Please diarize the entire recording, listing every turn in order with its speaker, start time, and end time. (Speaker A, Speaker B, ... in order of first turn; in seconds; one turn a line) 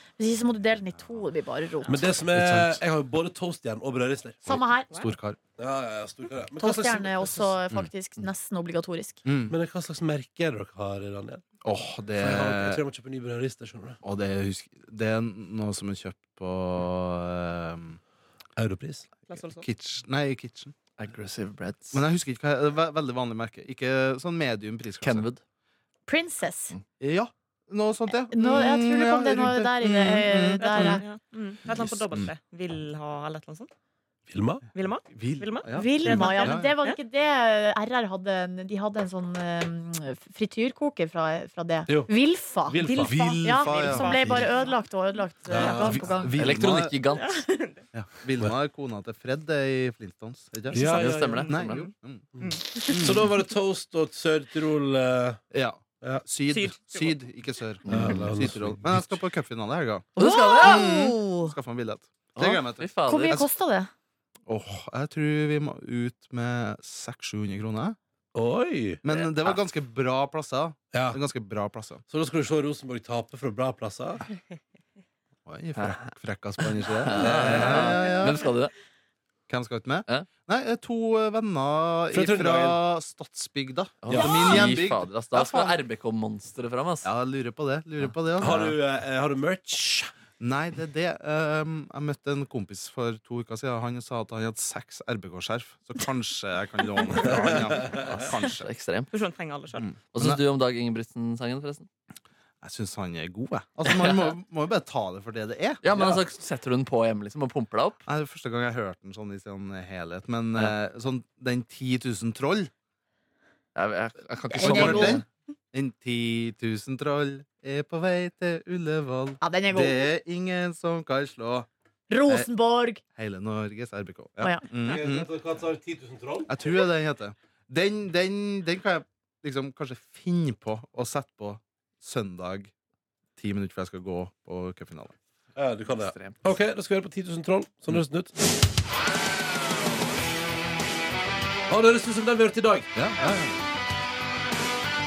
Speaker A: 0.2-2.1
Speaker B: 1.9-4.4
Speaker C: 2.2-2.8
Speaker A: 4.5-5.0
Speaker C: 4.5-5.4
Speaker B: 5.6-7.5
Speaker A: 6.6-9.2
Speaker C: 9.2-9.6
Speaker B: 9.5-11.4
Speaker C: 11.6-12.8
Speaker B: 12.2-14.0
Speaker C: 14.0-18.0
Speaker B: 18.6-19.1
Speaker D: 19.3-19.6
Speaker C: 19.5-20.7
Speaker E: 21.0-22.0
Speaker C: 21.9-25.3
Speaker E: 25.0-25.4
Speaker A: 26.1-26.7
Speaker C: 27.0-31.0
Speaker A: 28.3-31.0
Speaker D: 30.6-33.7
Speaker C: 31.7-32.3
Speaker B: 34.3-34.6
Speaker D: 34.7-37.0
Speaker C: 35.1-36.8
Speaker A: 35.7-46.4
Speaker B: 42.7-43.1
Speaker D: 42.9-44.7
Speaker C: 42.9-44.5
Speaker B: 45.5-46.1
Speaker C: 45.6-47.0
Speaker E: 46.4-47.4
Speaker D: 47.1-47.8
Speaker C: 47.9-52.3
Speaker B: 50.7-51.5
Speaker E: 50.9-51.9
Speaker D: 52.4-52.8
Speaker C: 52.9-53.3
Speaker B: 53.0-55.4
Speaker C: 55.5-63.5
Speaker D: 56.5-57.2
Speaker E: 57.9-58.2
Speaker B: 57.9-59.2
Speaker A: 60.1-61.5
Speaker E: 60.2-60.8
Speaker E: 62.4-63.4
Speaker A: 63.1-63.9
Speaker C: 64.5-68.0
Speaker B: 68.3-69.0
Speaker C: 69.0-72.0
Speaker E: 69.1-69.6
Speaker B: 70.9-71.2
Speaker B: 72.1-74.2
Speaker C: 75.5-78.5
Speaker E: 75.8-78.7
Speaker B: 77.2-78.0
Speaker C: 79.5-85.8
Speaker B: 82.1-82.8
Speaker E: 84.0-87.1
Speaker B: 84.1-84.4
Speaker C: 87.0-88.7
Speaker E: 88.0-88.7
Speaker B: 88.4-90.1
Speaker C: 90.4-98.7
Speaker B: 97.2-98.1
Speaker E: 98.3-99.1
Speaker D: 99.1-99.9
Speaker C: 99.8-100.4
Speaker E: 100.1-101.9
Speaker C: 102.6-106.1
Speaker E: 103.8-104.3
Speaker E: 105.8-108.0
Speaker B: 105.9-106.2
Speaker C: 108.1-112.7
Speaker E: 113.7-115.2
Speaker A: 114.5-115.2
Speaker C: 114.6-121.7
Speaker A: 119.4-120.1
Speaker A: 122.1-123.0
Speaker C: 123.1-125.3
Speaker A: 124.4-124.6
Speaker B: 124.8-126.5
Speaker C: 126.5-132.7
Speaker C: 133.4-135.2
Speaker B: 135.6-138.3
Speaker E: 135.9-136.4
Speaker B: 141.7-142.9
Speaker C: 142.9-143.6